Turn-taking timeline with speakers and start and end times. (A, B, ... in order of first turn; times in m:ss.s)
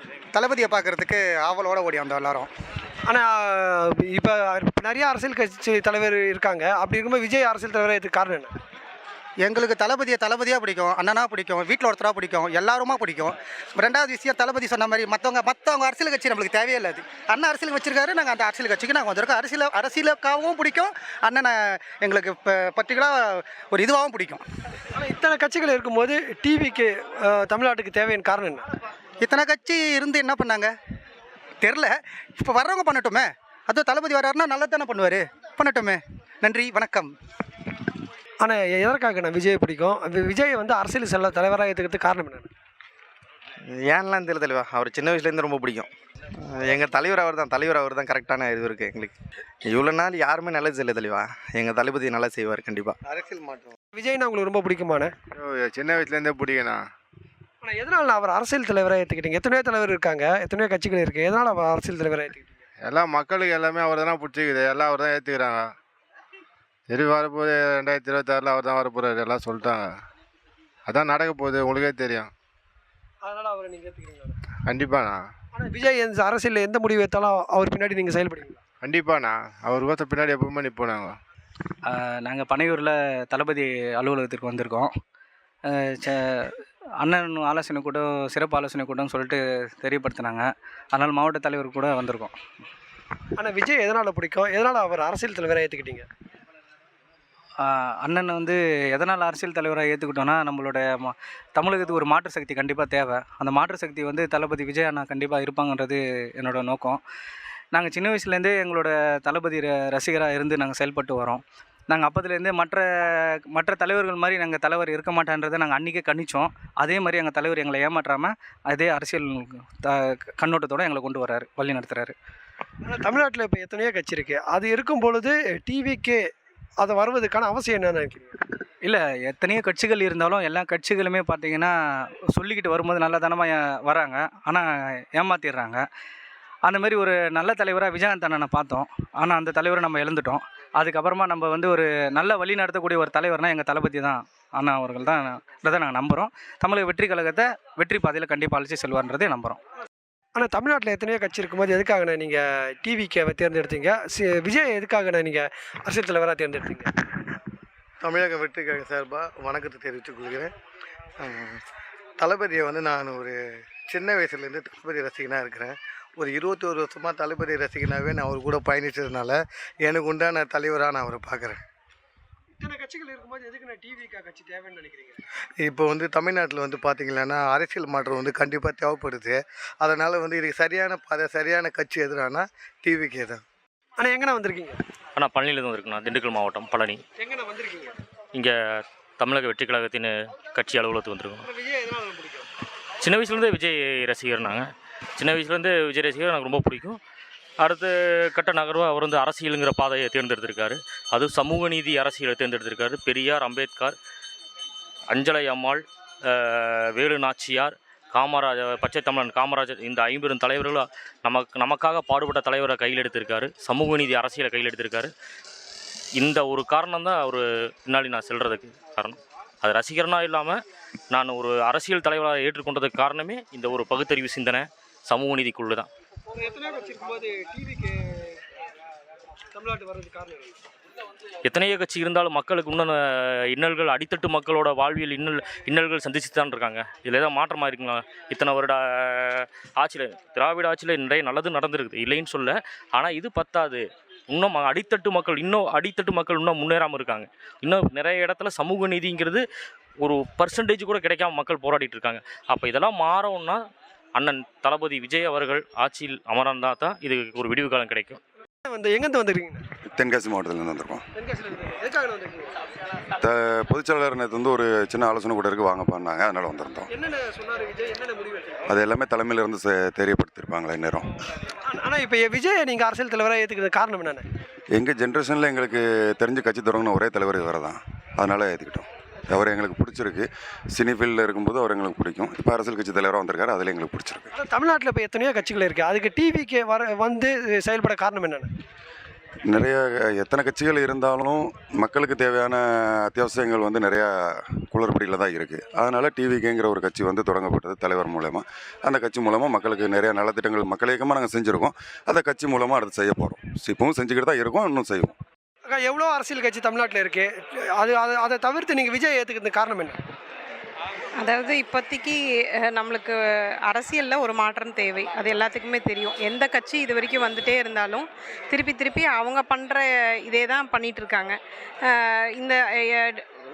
0:00.3-0:02.5 A
0:03.0-0:08.5 B
0:09.4-0:24.4 A
0:24.9-0:28.6 B
0:29.2-0:30.7 A
0:31.6-0:37.1 A
0:38.4-0:42.5 B
0:43.6-0:53.0 C
0:53.0-0:53.7 D
0:53.9-0:55.1 B
0:55.4-0:56.8 E
0:57.6-1:02.6 B
1:02.8-1:05.7 E
1:06.9-1:09.8 E
1:10.9-1:12.3 E
1:13.2-1:14.4 B
1:14.7-1:15.2 E
1:15.5-1:18.6 B
1:18.8-1:21.1 E
1:21.9-1:24.9 F
1:25.7-1:32.3 F
1:33.4-1:36.0 B
1:37.6-1:47.0 F
1:47.7-2:02.1 F
2:02.8-2:06.2 B
2:06.8-2:08.4 B
2:08.8-2:11.7 F
2:12.3-2:15.8 F
2:16.7-2:29.6 F
2:30.3-2:36.9 B
2:38.0-2:40.5 D
2:41.2-2:41.6 D
2:42.2-2:43.4 D
2:43.9-2:51.6 D
2:52.6-2:55.2 B
2:55.6-3:03.4 D
3:04.0-3:04.8 B
3:05.2-3:07.0 G
3:07.2-3:07.9 B
3:08.3-3:11.4 G
3:11.4-3:12.5 B
3:13.0-3:17.0 G
3:17.6-3:23.9 G
3:25.1-3:35.1 G
3:36.2-3:40.6 G
3:41.1-3:45.9 G
3:46.3-3:48.2 B
3:49.5-3:50.5 B
3:51.4-4:09.4 G
4:10.0-4:13.6 G
4:14.2-4:18.2 G
4:18.6-4:19.6 B
4:19.9-4:21.0 H
4:21.2-4:22.5 B
4:23.2-4:26.9 H
4:26.9-4:28.6 B
4:28.7-4:31.1 H
4:31.7-4:34.2 B
4:34.7-4:44.3 H
4:44.3-4:48.5 B
4:49.5-5:05.1 H
5:05.7-5:10.0 B
5:11.2-5:12.2 I
5:12.7-5:13.1 I
5:13.7-5:21.4 I
5:22.0-5:23.2 I